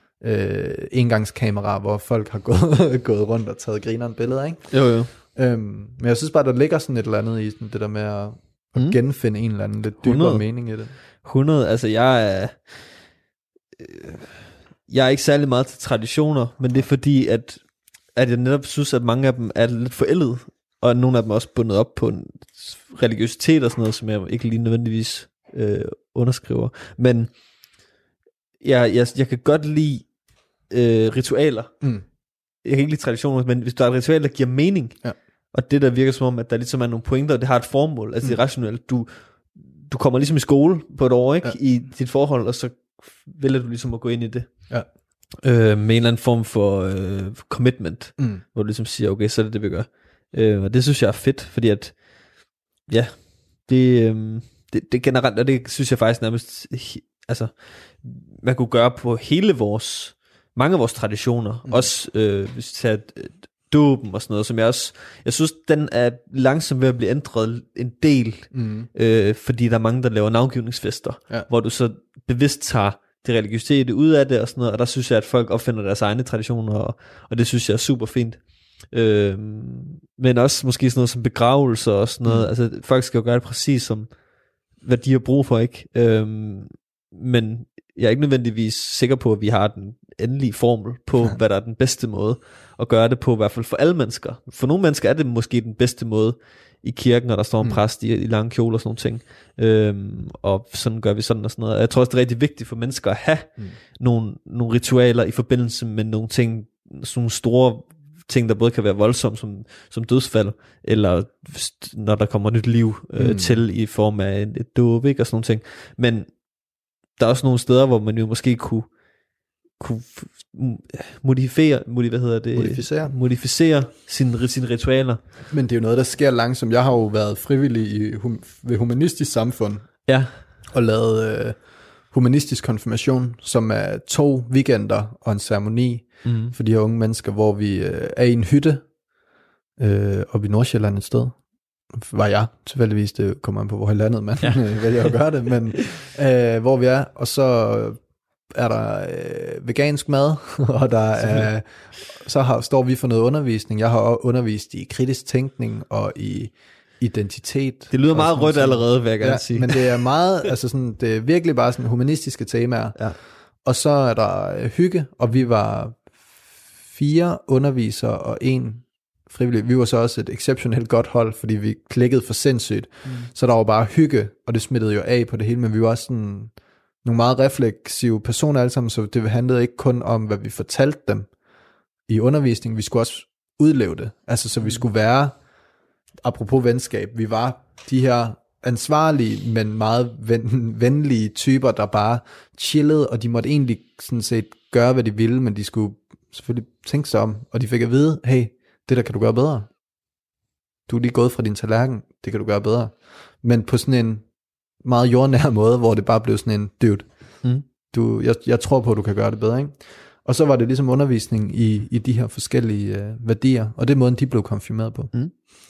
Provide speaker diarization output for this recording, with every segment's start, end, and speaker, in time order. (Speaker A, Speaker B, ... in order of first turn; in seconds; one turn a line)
Speaker A: 0.2-10.9
Speaker B: 4.7-5.1
Speaker B: 8.8-9.0
Speaker B: 10.0-13.1
Speaker B: 13.8-27.8
Speaker B: 28.6-32.0
Speaker A: 31.8-32.1
Speaker B: 32.5-44.8
Speaker B: 45.4-119.0
Speaker A: 48.2-48.4
Speaker A: 68.5-68.9
Speaker A: 82.2-82.5
Speaker A: 113.2-113.6
Speaker B: 119.7-125.2
Speaker A: 122.5-123.2
Speaker A: 125.5-138.9
Speaker B: 130.1-130.5
Speaker B: 136.2-136.6
Speaker A: 139.8-166.1
Speaker B: 144.4-145.2
Speaker B: 151.2-151.5
Speaker B: 157.9-160.1
Speaker A: 166.8-181.3
Speaker B: 173.0-173.3
Speaker A: 182.1-185.4
Speaker A: 186.2-199.7
Speaker A: 200.9-204.3
Speaker A: 204.8-215.3